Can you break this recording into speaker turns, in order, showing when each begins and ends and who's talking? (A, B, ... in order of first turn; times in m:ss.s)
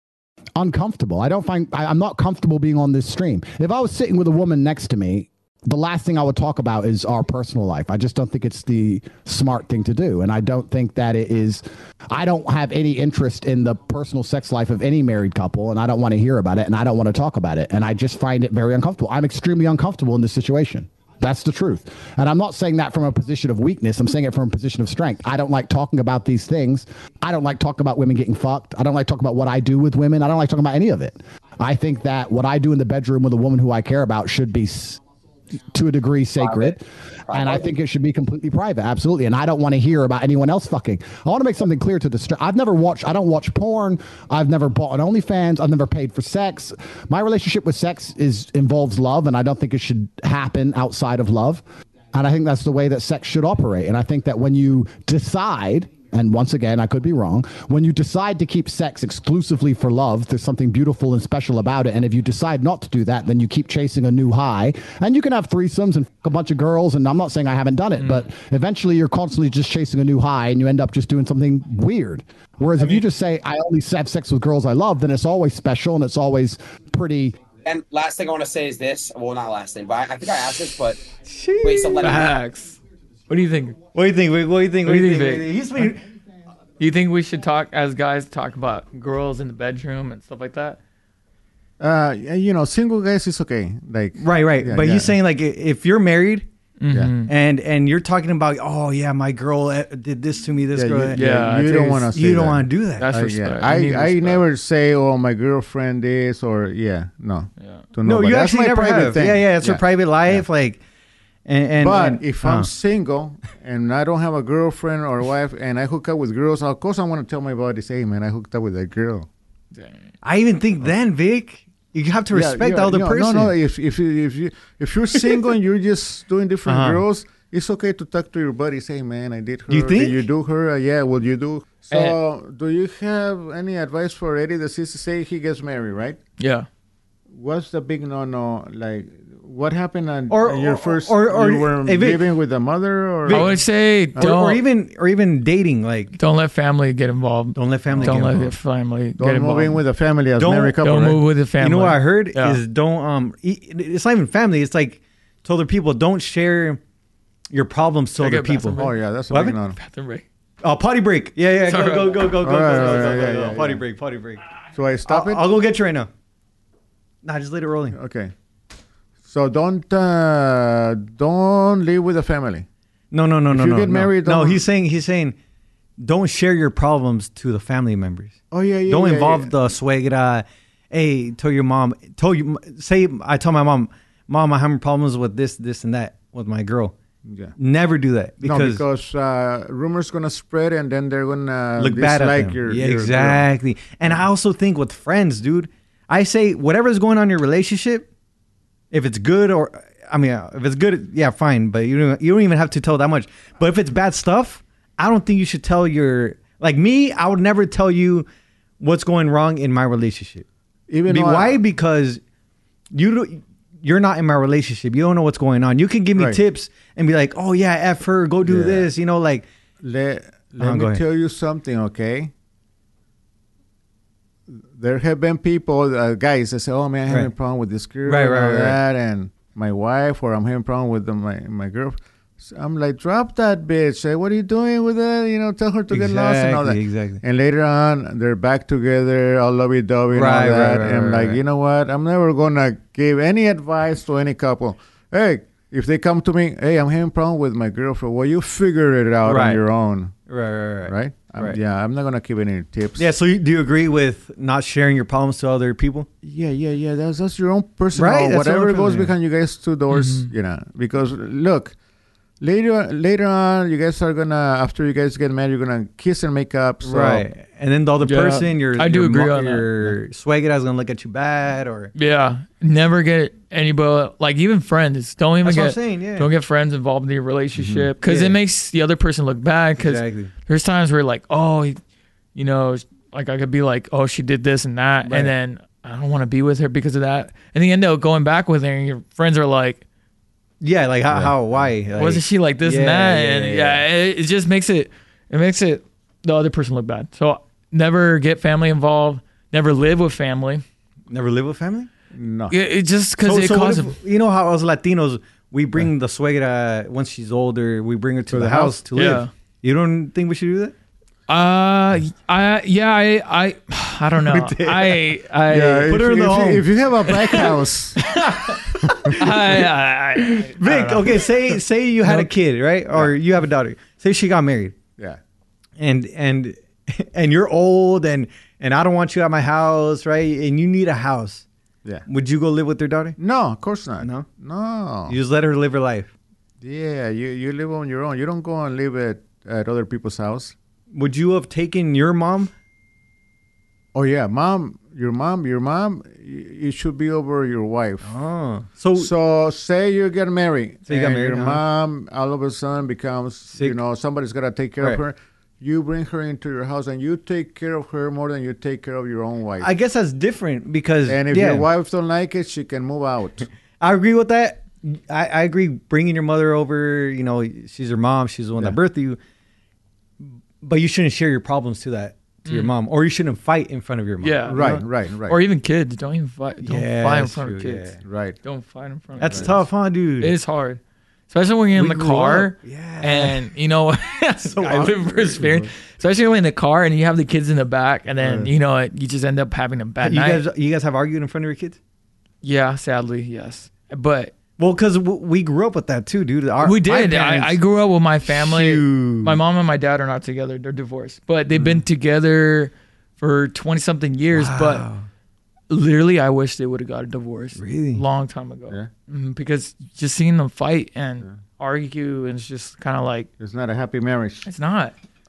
0:00.6-0:35.0 A
0:35.7-0:51.6 A
0:36.4-0:36.7 B
0:37.3-0:37.6 B
0:52.1-1:17.4 A
1:08.0-1:08.3 C
1:17.6-1:21.0 B
1:21.2-1:22.4 D
1:21.6-1:22.3 B
1:22.0-1:22.8 C
1:23.3-1:23.8 C
1:23.9-1:26.0 D
1:24.8-1:25.9 C
1:26.8-1:30.8 C
1:31.8-1:35.1 E
1:34.2-1:36.4 D
1:36.8-1:37.3 C
1:37.2-1:41.2 D
1:40.7-1:50.4 E
1:41.1-1:42.0 C
1:42.1-1:43.1 D
1:43.0-1:44.4 C
1:47.6-1:47.8 C
1:48.0-1:50.8 D
1:51.4-1:52.7 D
1:51.8-1:59.3 E
2:00.2-2:03.5 D
2:02.3-2:16.2 E
2:06.6-2:07.0 D
2:09.7-2:10.2 D
2:11.9-2:12.2 C
2:16.4-2:16.7 C
2:17.3-2:23.5 E
2:20.3-2:22.3 D
2:23.2-2:23.6 D
2:23.3-2:24.6 C
2:24.2-2:26.2 D
2:26.2-2:29.8 C
2:27.5-2:28.5 D
2:27.9-2:28.5 E
2:29.2-2:31.2 E
2:30.4-2:30.8 D
2:30.8-2:32.6 C
2:31.6-2:36.8 D
2:37.5-2:39.6 D
2:38.2-2:39.0 C
2:38.8-2:39.8 E
2:39.7-2:40.2 C
2:40.6-2:44.4 D
2:41.6-2:43.0 C
2:42.4-2:43.8 E
2:44.7-2:45.4 E
2:45.1-2:46.1 D
2:47.2-2:48.0 D
2:47.9-2:48.3 E
2:49.2-2:52.6 E
2:53.1-2:55.4 D
2:53.5-2:54.6 E
2:56.0-3:06.9 D
2:58.5-2:59.5 E
3:07.3-3:07.5 E
3:07.6-3:08.8 D
3:08.4-3:13.5 E
3:11.8-3:18.1 D
3:18.9-3:28.3 D
3:28.8-3:30.4 D
3:30.9-3:31.6 E
3:31.1-3:32.2 D
3:32.9-3:39.4 D
3:38.4-3:38.9 E
3:39.8-3:42.3 E
3:40.6-3:41.0 D
3:44.5-4:10.1 E
3:48.0-3:48.8 D
3:55.9-3:57.2 D
4:00.1-4:01.4 D
4:09.2-4:09.6 D
4:10.3-4:11.6 D
4:10.9-4:13.1 E
4:13.0-4:16.1 D
4:16.2-4:21.7 E
4:18.0-4:19.1 D
4:19.9-4:20.3 C
4:22.4-4:27.2 E
4:26.8-4:31.9 D
4:28.0-4:30.0 C
4:31.9-4:41.8 C
4:35.4-4:36.3 D
4:37.5-4:37.9 E
4:38.0-4:38.4 D
4:39.8-4:40.3 D
4:42.3-4:49.8 C
4:45.0-4:45.3 D
4:50.6-4:53.8 D
4:51.1-4:51.7 E
4:52.0-5:00.6 C
5:01.1-5:01.9 D
5:02.1-5:02.5 E
5:02.5-5:03.9 C
5:03.2-5:10.7 D
5:08.3-5:08.9 E
5:08.9-5:09.3 C
5:11.3-5:15.9 C
5:14.2-5:15.1 D
5:15.5-5:18.0 E
5:15.9-5:16.7 D
5:17.1-5:21.3 C
5:18.8-5:19.6 D
5:20.2-5:24.8 D
5:22.0-5:22.3 C
5:25.8-5:31.4 D
5:32.0-5:33.2 D
5:33.2-5:35.2 E
5:34.0-5:34.3 D
5:35.1-5:36.1 D
5:36.6-5:40.5 E
5:40.9-5:42.5 D
5:43.9-5:48.1 E
5:48.0-5:49.1 D
5:49.0-5:59.7 E
5:50.9-5:51.6 D
5:59.6-6:01.7 D
6:01.1-6:03.5 E
6:03.8-6:09.2 D
6:10.2-6:14.7 D
6:12.4-6:12.7 C
6:14.2-6:19.6 C
6:14.5-6:15.4 E
6:16.6-6:18.0 D
6:18.0-6:18.4 E
6:19.2-6:20.3 D
6:19.2-6:19.5 E
6:20.2-6:20.8 C
6:21.3-6:30.4 C
6:21.7-6:23.4 D
6:24.4-6:25.5 D
6:25.2-6:25.7 E
6:28.2-6:28.5 E
6:30.0-6:31.8 D
6:32.4-6:34.3 C
6:34.6-6:37.6 D
6:36.6-6:44.8 C
6:38.3-6:39.4 D
6:44.3-6:45.1 D
6:45.7-6:53.3 C
6:47.6-6:48.0 D
6:53.4-6:54.5 E
6:54.4-6:54.9 C